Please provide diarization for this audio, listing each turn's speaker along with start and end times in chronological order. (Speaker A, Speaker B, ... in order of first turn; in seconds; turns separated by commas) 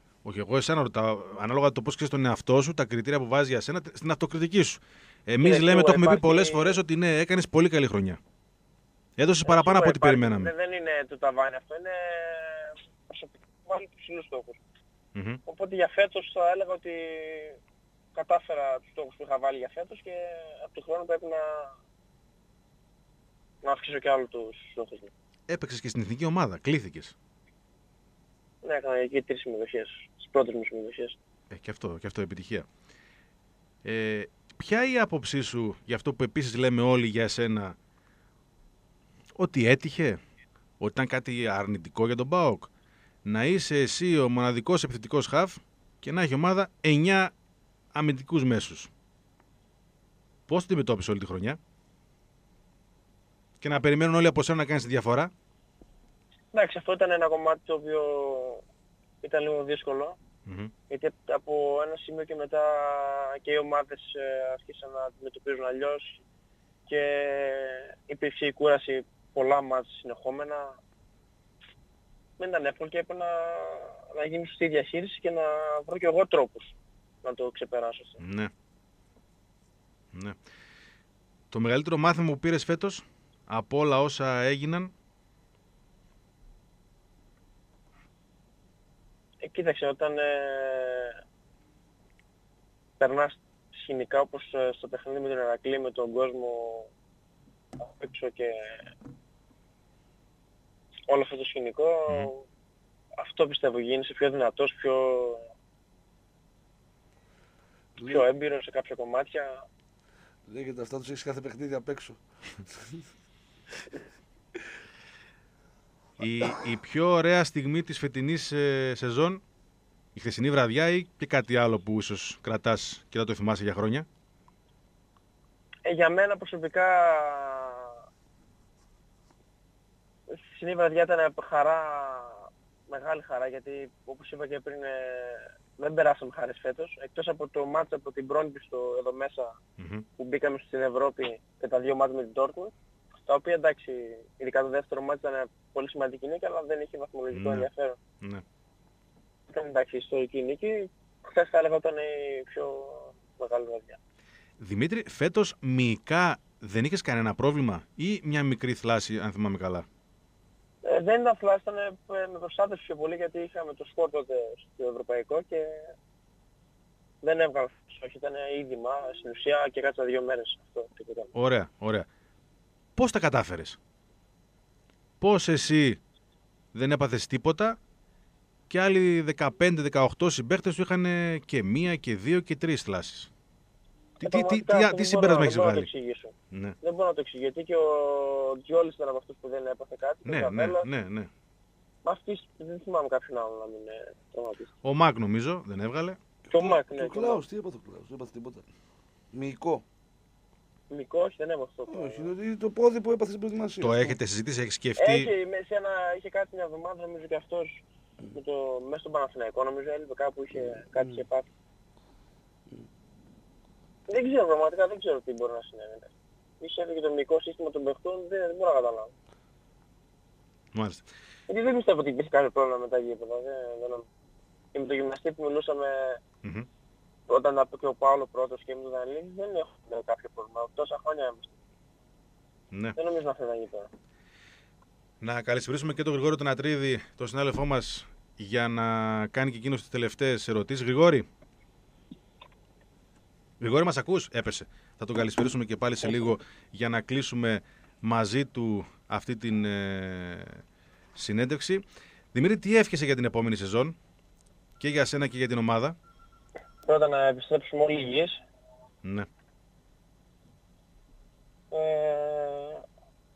Speaker A: 0.2-8.2, Speaker B: 5.4-6.8, Speaker A: 9.2-10.5, Speaker B: 9.5-14.6, Speaker A: 15.2-15.4, Speaker B: 15.5-17.6, Speaker B: 18.1-21.7, Speaker B: 23.6-25.1, Speaker A: 25.5-27.1, Speaker B: 28.6-31.2, Speaker A: 31.5-32.6, Speaker A: 33.9-37.8, Speaker A: 39.4-40.2, Speaker A: 40.8-42.7, Speaker A: 43.3-47.3, Speaker A: 47.9-48.9, Speaker A: 50.5-51.6, Speaker A: 53.6-55.3, Speaker B: 56.5-58.6, Speaker B: 59.2-60.2, Speaker A: 60.5-60.7, Speaker B: 60.9-66.2, Speaker B: 66.9-70.8, Speaker B: 72.4-78.2, Speaker A: 78.2-78.5, Speaker A: 81.5-84.9, Speaker B: 89.4-91.2, Speaker B: 93.0-96.9, Speaker B: 97.8-98.8, Speaker B: 101.1-102.5, Speaker B: 103.2-105.4, Speaker C: 108.0-108.3, Speaker B: 108.1-109.6, Speaker C: 110.5-113.0, Speaker A: 116.2-119.4, Speaker A: 120.2-124.1, Speaker B: 125.8-127.9, Speaker B: 130.3-139.5, Speaker A: 139.8-140.1, Speaker B: 140.2-142.7, Speaker B: 143.2-148.0, Speaker A: 147.3-147.7, Speaker B: 149.5-154.0, Speaker A: 154.6-159.8, Speaker B: 160.8-165.9, Speaker B: 167.2-171.3, Speaker A: 171.3-172.1, Speaker A: 173.0-173.8, Speaker A: 175.2-176.0, Speaker A: 176.7-177.8, Speaker A: 178.7-183.3, Speaker A: 184.2-185.9, Speaker B: 184.2-190.9, Speaker A: 190.2-191.3, Speaker B: 192.0-194.7, Speaker A: 194.8-196.2, Speaker C: 196.5-198.7, Speaker B: 196.5-197.4, Speaker C: 199.3-199.8, Speaker B: 200.9-202.3, Speaker C: 201.9-204.2, Speaker A: 203.8-205.3, Speaker B: 205.0-207.8, Speaker B: 208.3-211.5, Speaker C: 210.6-211.2, Speaker B: 214.1-219.1, Speaker A: 220.7-221.1, Speaker B: 221.5-224.1, Speaker B: 224.7-226.2, Speaker B: 227.3-231.5, Speaker B: 233.0-233.9, Speaker A: 235.2-241.3, Speaker A: 243.6-250.6, Speaker A: 251.2-253.9, Speaker A: 254.8-256.0, Speaker B: 256.9-258.4, Speaker B: 261.7-262.8